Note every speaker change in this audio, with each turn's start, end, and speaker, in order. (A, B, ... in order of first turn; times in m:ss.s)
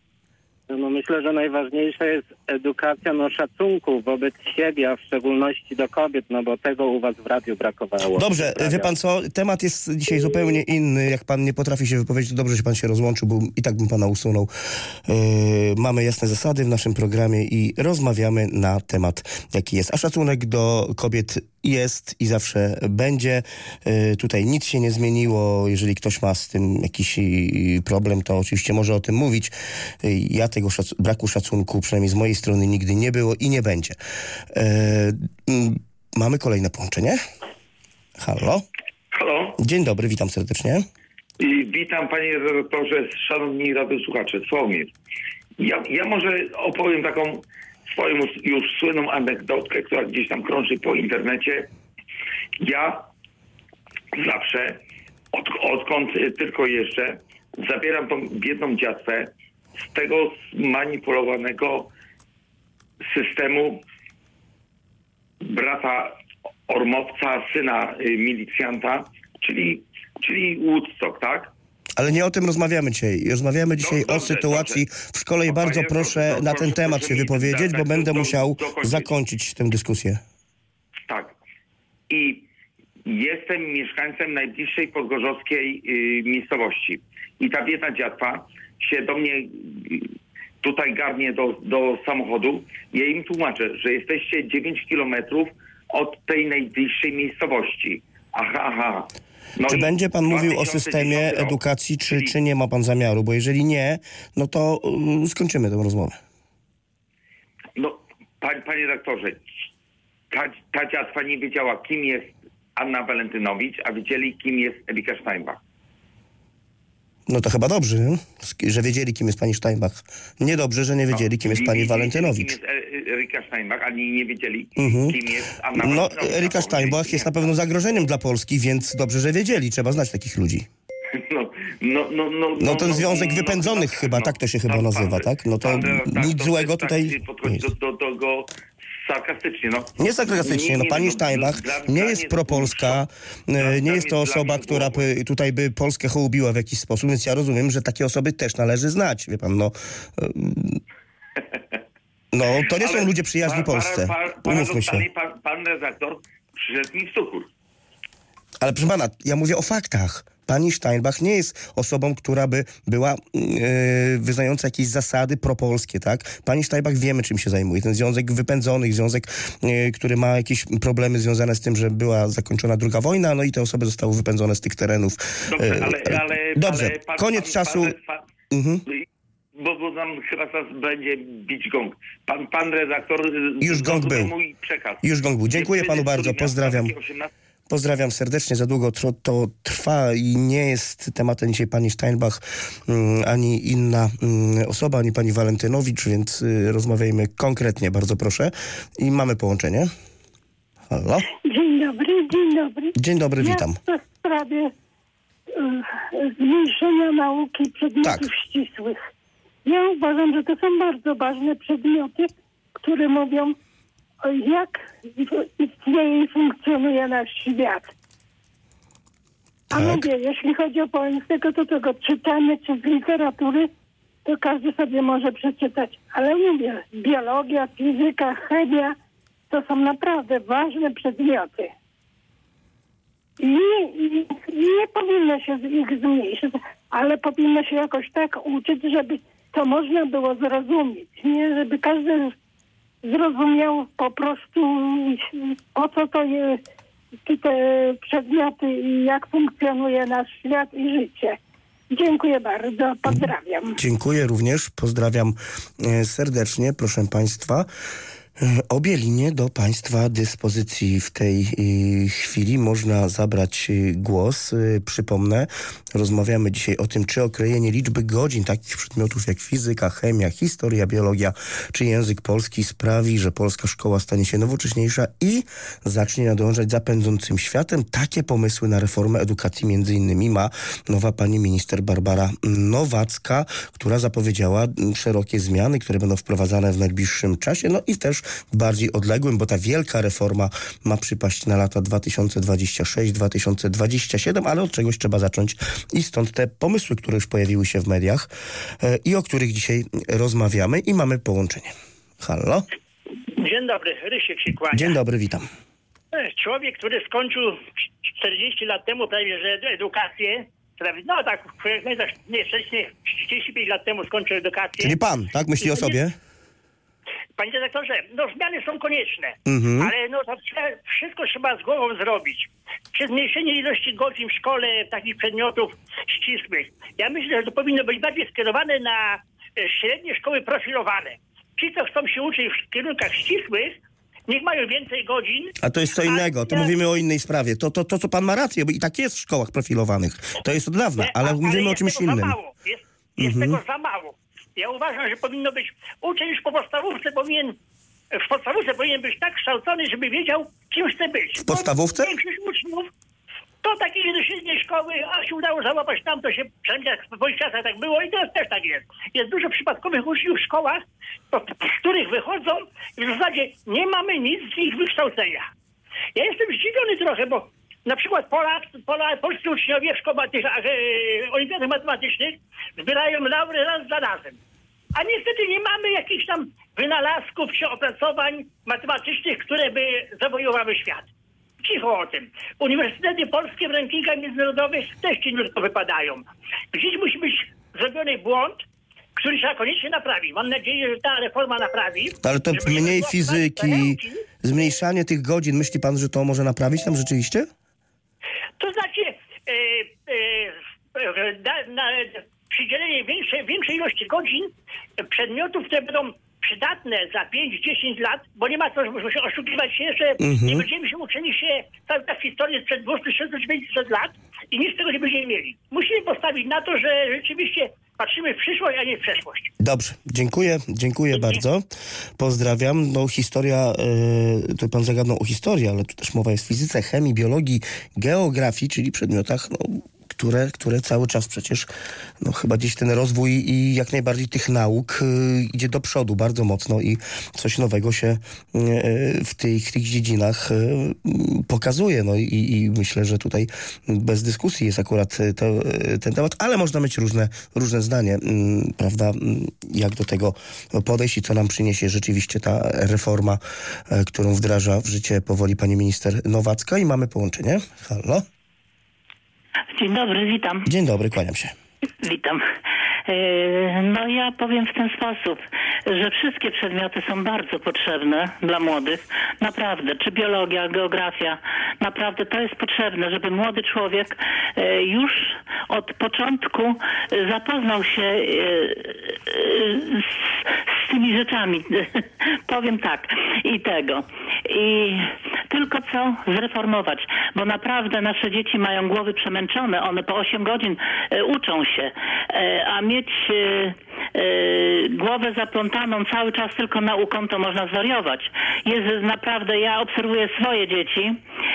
0:00.7-0:08.9 A
0:08.1-0:14.5 B
0:15.1-0:29.5 B
0:30.0-0:34.0 B
0:34.5-0:37.2 B
0:38.2-0:38.6 B
0:39.1-0:39.6 C
0:39.6-0:40.8 B
0:41.4-0:44.9 C
0:45.6-0:51.7 C
0:52.6-0:53.1 C
0:54.1-0:54.8 C
0:55.3-1:01.9 C
1:03.0-1:03.8 C
1:05.4-1:06.2 C
1:06.7-1:11.5 C
1:12.0-1:20.2 B
1:13.8-1:14.8 C
1:15.4-1:19.1 C
1:21.1-1:21.4 C
1:22.1-1:22.5 C
1:23.0-1:42.4 C
1:39.7-1:46.2 B
1:47.8-1:49.4 C
1:50.3-1:55.6 C
1:57.3-2:02.5 B
2:01.1-2:07.6 C
2:04.8-2:05.2 B
2:05.8-2:10.7 B
2:11.1-2:18.5 C
2:12.6-2:17.6 B
2:19.0-2:23.0 C
2:20.0-2:30.8 B
2:23.6-2:25.1 C
2:32.3-2:35.0 B
2:32.6-2:37.5 C
2:38.6-2:57.9 B
2:55.5-2:58.2 C
2:58.5-2:58.8 B
2:59.6-3:07.3 C
3:03.6-3:04.3 B
3:05.0-3:06.9 B
3:07.7-3:19.9 B
3:20.9-3:21.3 B
3:21.4-3:24.7 D
3:22.9-3:23.8 B
3:25.6-3:29.0 D
3:29.6-3:33.6 D
3:34.2-3:37.9 D
3:39.7-3:43.7 D
3:39.7-3:40.0 B
3:44.2-3:49.0 D
3:49.5-3:51.7 D
3:53.4-4:02.4 D
4:03.0-4:06.6 D
4:07.2-4:11.4 D
4:11.9-4:13.8 D
4:13.8-4:17.7 B
4:18.4-5:02.7 B
5:03.4-5:05.0 E
5:04.7-5:05.4 B
5:06.1-5:15.0 E
5:14.8-5:16.1 B
5:15.6-5:16.0 E
5:17.4-5:36.7 E
5:19.4-5:19.9 B
5:35.6-5:42.4 B
5:41.0-5:47.6 E
5:43.2-5:43.6 B
5:48.1-5:52.9 E
5:51.4-5:52.1 B
5:53.6-6:05.5 E
6:06.1-6:14.4 E
6:15.0-6:21.1 E
6:21.6-6:28.6 E
6:29.2-6:34.2 E
6:32.2-6:37.5 B
6:38.6-6:59.5 E
6:50.2-6:50.6 B
6:59.6-7:01.6 B
7:01.1-7:01.4 E
7:02.2-7:11.7 B
7:12.2-7:38.2 B
7:39.7-7:40.7 F
7:40.6-7:41.5 B
7:42.0-7:42.4 F
7:43.0-8:21.2 F